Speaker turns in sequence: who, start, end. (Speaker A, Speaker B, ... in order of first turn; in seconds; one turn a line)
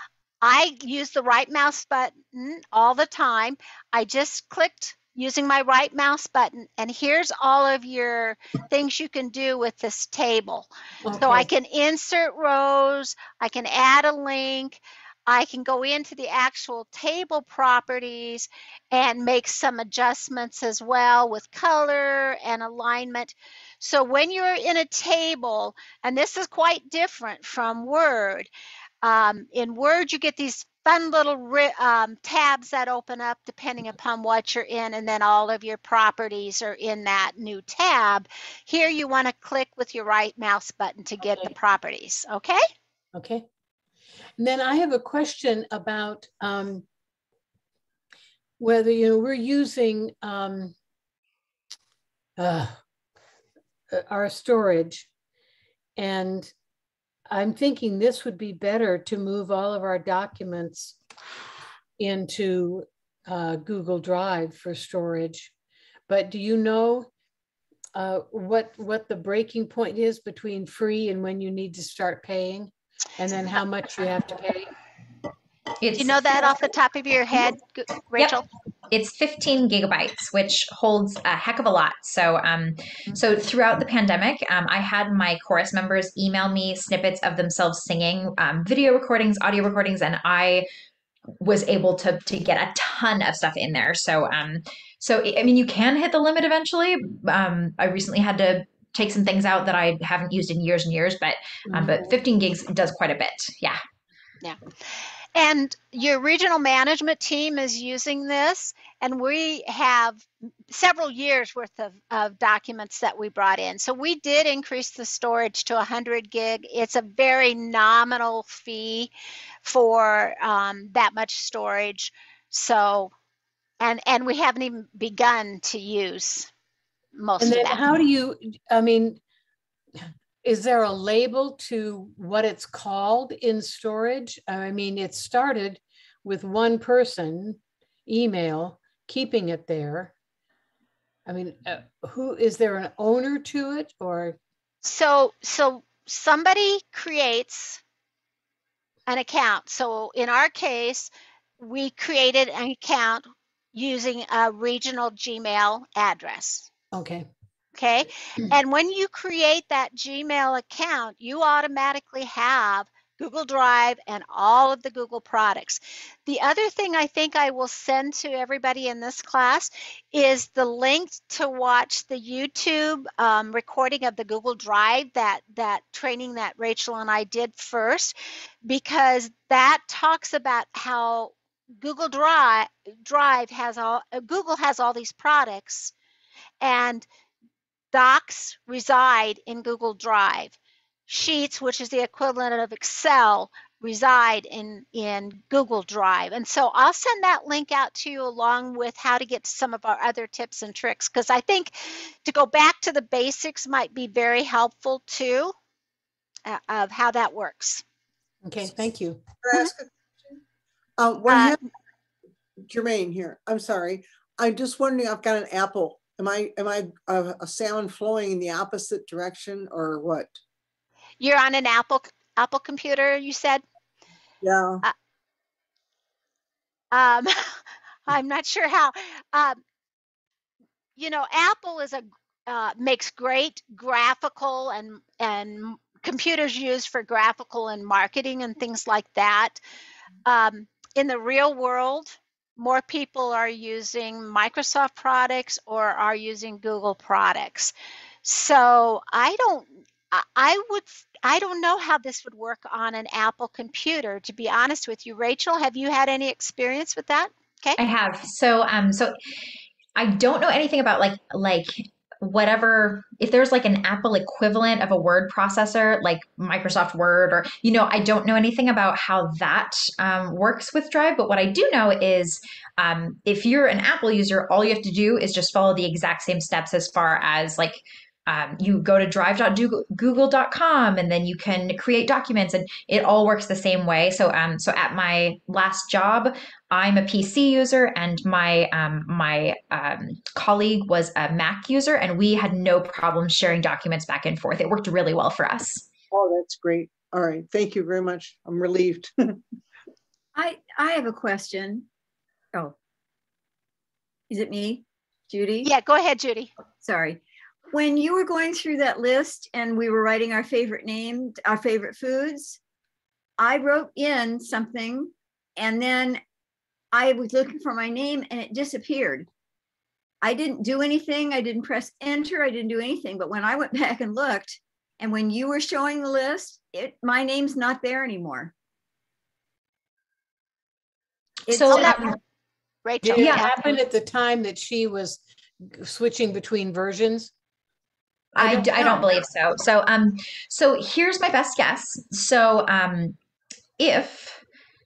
Speaker A: 0.4-28.5
Speaker B: 11.0-11.5
Speaker A: 29.0-42.6
Speaker B: 43.1-43.5
Speaker B: 44.4-46.9
Speaker B: 48.6-50.7
Speaker B: 52.4-52.8
Speaker B: 53.9-55.1
Speaker B: 56.0-56.5
Speaker B: 57.3-61.0
Speaker B: 62.0-65.5
Speaker B: 66.1-67.1
Speaker B: 67.9-74.7
Speaker C: 75.8-76.5
Speaker A: 76.0-78.4
Speaker C: 78.9-90.7
Speaker C: 91.4-103.8
Speaker B: 101.7-102.2
Speaker A: 105.3-119.1
Speaker A: 119.6-123.1
Speaker A: 123.8-126.5
Speaker A: 127.2-128.0
Speaker B: 127.4-129.2
Speaker B: 130.0-140.1
Speaker B: 141.2-144.4
Speaker A: 144.8-147.8
Speaker A: 149.1-156.7
Speaker B: 156.9-157.3
Speaker A: 157.7-178.1
Speaker A: 178.7-185.9
Speaker A: 186.6-187.1
Speaker A: 187.9-205.5
Speaker A: 206.4-207.8
Speaker B: 208.4-209.2
Speaker D: 209.4-209.8
Speaker D: 211.0-211.6
Speaker A: 211.3-211.6
Speaker D: 212.7-220.4
Speaker A: 221.2-223.6
Speaker D: 224.4-224.8
Speaker A: 226.9-229.6
Speaker A: 231.0-239.6
Speaker A: 240.2-247.7
Speaker A: 248.2-257.8
Speaker C: 257.8-259.1
Speaker C: 259.9-295.9
Speaker D: 296.1-299.1
Speaker E: 300.3-301.9
Speaker E: 304.3-305.7
Speaker A: 305.6-306.5
Speaker E: 306.8-312.6
Speaker E: 313.4-316.2
Speaker E: 316.9-319.3
Speaker E: 320.2-328.5
Speaker C: 331.5-332.1
Speaker E: 331.5-331.9
Speaker A: 331.7-332.1
Speaker A: 332.8-333.8
Speaker B: 333.0-337.3
Speaker C: 333.2-333.5
Speaker C: 338.4-343.2
Speaker E: 338.4-339.0
Speaker C: 343.8-344.4